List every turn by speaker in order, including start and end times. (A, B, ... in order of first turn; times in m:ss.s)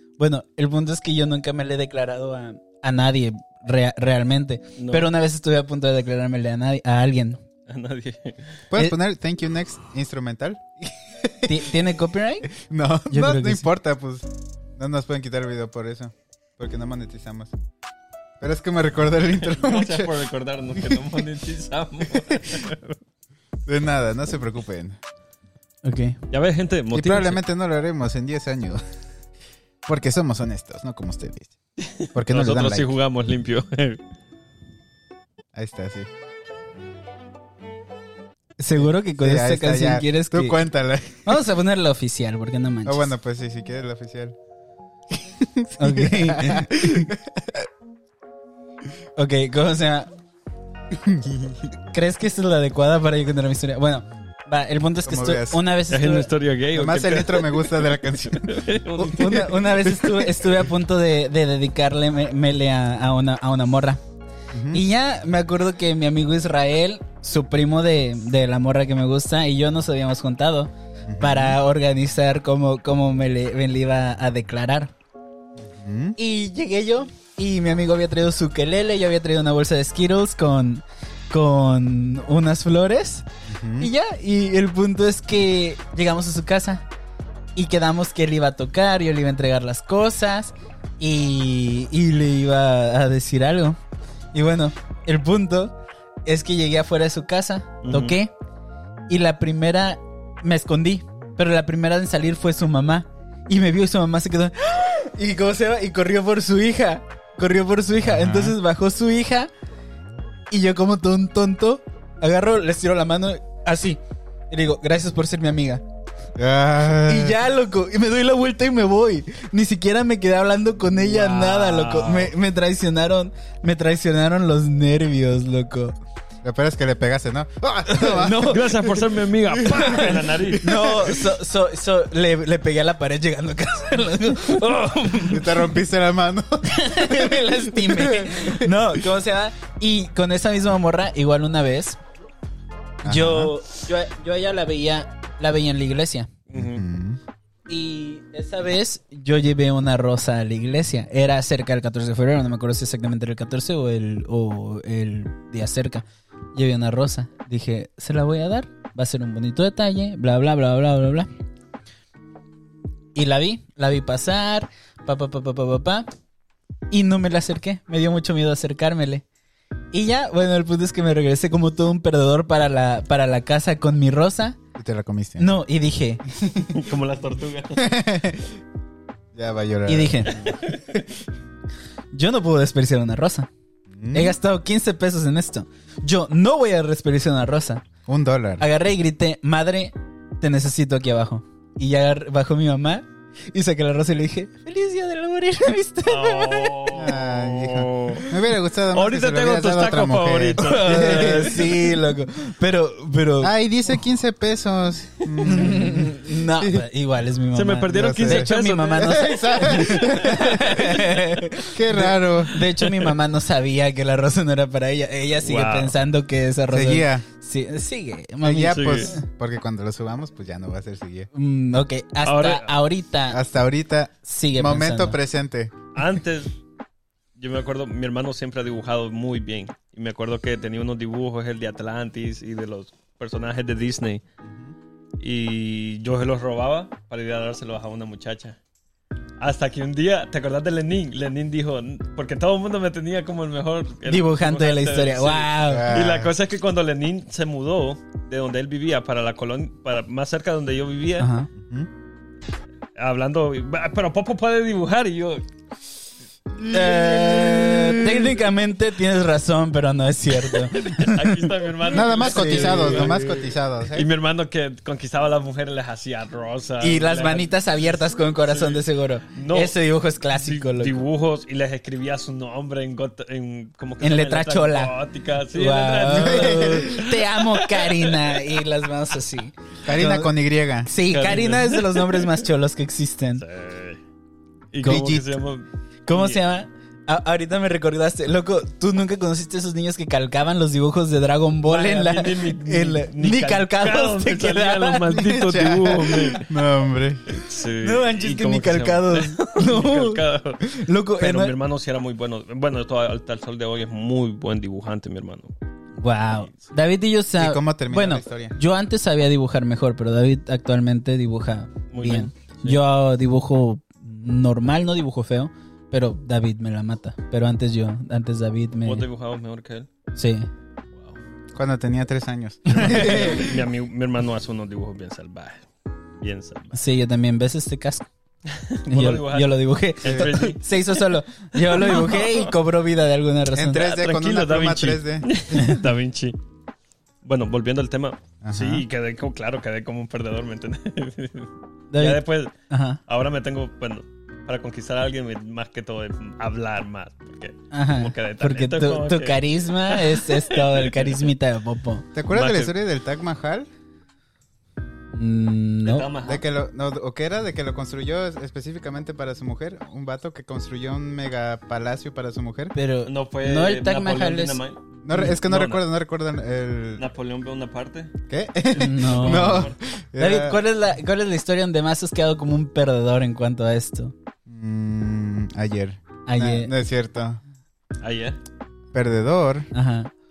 0:00.2-0:07.4 A
0:04.8-0:05.1 B
0:07.7-0:08.6 B
0:08.7-0:11.6 C
0:11.4-0:12.5 A
0:12.5-0:17.5 C
0:13.1-0:13.7 A
0:18.4-0:20.1 C
0:19.4-0:22.9 B
0:23.6-0:25.0 C
0:25.8-0:26.2 A
0:26.3-0:27.4 B
0:26.9-0:28.8 C
0:29.8-0:31.5 C
0:31.8-0:34.0 B
0:32.1-0:32.9 C
0:35.5-0:36.1 C
0:38.6-0:40.6 A
0:38.7-0:41.4 C
0:41.2-0:43.1 A
0:42.8-0:44.4 C
0:45.4-0:47.6 C
0:45.8-0:47.1 A
0:49.2-0:50.1 A
0:51.0-0:51.6 C
0:51.9-0:56.3 A
0:55.0-0:55.6 C
0:55.9-1:00.0 B
0:56.7-0:58.7 C
0:59.0-1:04.0 A
1:04.5-1:04.8 C
1:04.7-1:14.9 A
1:11.0-1:11.6 C
1:15.6-1:16.2 C
1:16.2-1:23.2 A
1:23.5-1:23.9 C
1:23.8-1:26.8 A
1:27.6-1:33.8 A
1:34.3-1:38.3 A
1:37.8-1:38.2 B
1:39.1-1:49.5 A
1:48.0-1:48.6 C
1:50.5-1:55.8 A
1:56.4-1:57.4 C
1:57.0-2:06.0 A
2:01.0-2:02.3 B
2:06.4-2:08.7 C
2:07.9-2:08.8 A
2:08.4-2:11.2 B
2:09.6-2:10.2 C
2:09.7-2:15.5 A
2:15.2-2:18.7 C
2:16.7-2:22.0 A
2:23.0-2:23.5 C
2:23.0-2:26.3 A
2:26.5-2:26.8 B
2:26.5-2:27.2 C
2:27.7-2:41.3 A
2:43.1-2:46.1 A
2:46.9-2:49.2 A
2:49.9-2:54.6 A
2:54.8-2:55.5 C
2:55.4-2:56.7 A
2:56.7-2:57.9 B
2:57.8-2:58.5 C
2:59.3-3:00.5 C
2:59.9-3:00.4 A
3:00.3-3:00.8 B
3:02.1-3:03.5 A
3:03.9-3:04.4 C
3:04.1-3:07.8 A
3:08.0-3:08.6 C
3:08.6-3:16.8 A
3:16.0-3:18.3 B
3:16.9-3:21.7 C
3:18.9-3:21.8 B
3:20.6-3:23.5 A
3:23.4-3:26.8 C
3:25.4-3:39.2 A
3:27.5-3:30.6 B
3:27.9-3:30.9 C
3:31.6-3:32.5 C
3:32.8-3:33.1 B
3:35.4-3:35.9 B
3:36.7-3:37.2 C
3:38.4-3:41.3 C
3:38.7-3:39.1 B
3:41.3-3:43.4 A
3:42.2-3:42.7 B
3:43.3-3:45.7 C
3:44.2-3:45.2 A
3:45.9-3:46.5 B
3:47.4-3:54.2 B
3:54.4-3:54.7 C
3:55.2-3:58.6 B
3:59.4-4:11.3 B
4:04.1-4:05.9 A
4:05.6-4:06.3 C
4:11.2-4:11.5 A
4:11.6-4:11.9 C
4:13.0-4:15.4 B
4:16.6-4:18.3 C
4:16.7-4:23.2 A
4:20.5-4:29.8 B
4:21.9-4:24.1 C
4:26.8-4:31.0 A
4:30.3-4:38.4 B
4:34.0-4:34.9 A
4:35.5-4:40.3 A
4:36.1-4:37.0 C
4:39.8-4:40.9 C
4:40.8-4:43.4 A
4:41.1-4:42.4 B
4:43.4-4:44.0 B
4:44.7-4:46.4 B
4:44.8-4:45.3 C
4:46.1-4:56.3 A
4:51.6-4:56.4 B
4:55.4-4:57.2 C
4:57.3-5:05.5 B
4:57.8-5:01.5 A
5:06.0-5:19.0 A
5:07.4-5:08.6 C
5:11.9-5:12.8 B
5:18.8-5:19.9 B
5:20.1-5:20.5 A
5:21.5-5:23.5 C
5:22.7-5:25.6 B
5:22.7-5:23.4 A
5:26.2-5:26.8 B
5:26.7-5:28.1 A
5:28.5-5:31.0 B
5:28.9-5:33.9 A
5:30.0-5:30.3 C
5:31.5-5:32.5 B
5:33.5-5:35.6 C
5:33.7-5:36.4 B
5:35.5-5:35.8 A
5:37.2-5:42.5 B
5:38.4-5:38.8 C
5:41.9-5:43.0 A
5:43.1-5:51.2 B
5:47.7-5:52.0 A
5:52.1-5:53.7 C
5:52.3-5:52.7 B
5:55.1-5:56.1 A
5:55.8-5:56.4 B
5:56.2-6:02.7 C
6:02.7-6:04.6 A
6:03.0-6:05.8 B
6:05.0-6:07.0 C
6:07.0-6:08.1 B
6:08.3-6:10.6 C
6:08.7-6:14.1 A
6:09.0-6:09.8 B
6:14.5-6:17.4 C
6:16.2-6:16.7 A
6:18.0-6:18.4 B
6:18.9-6:19.7 C
6:19.7-6:20.1 A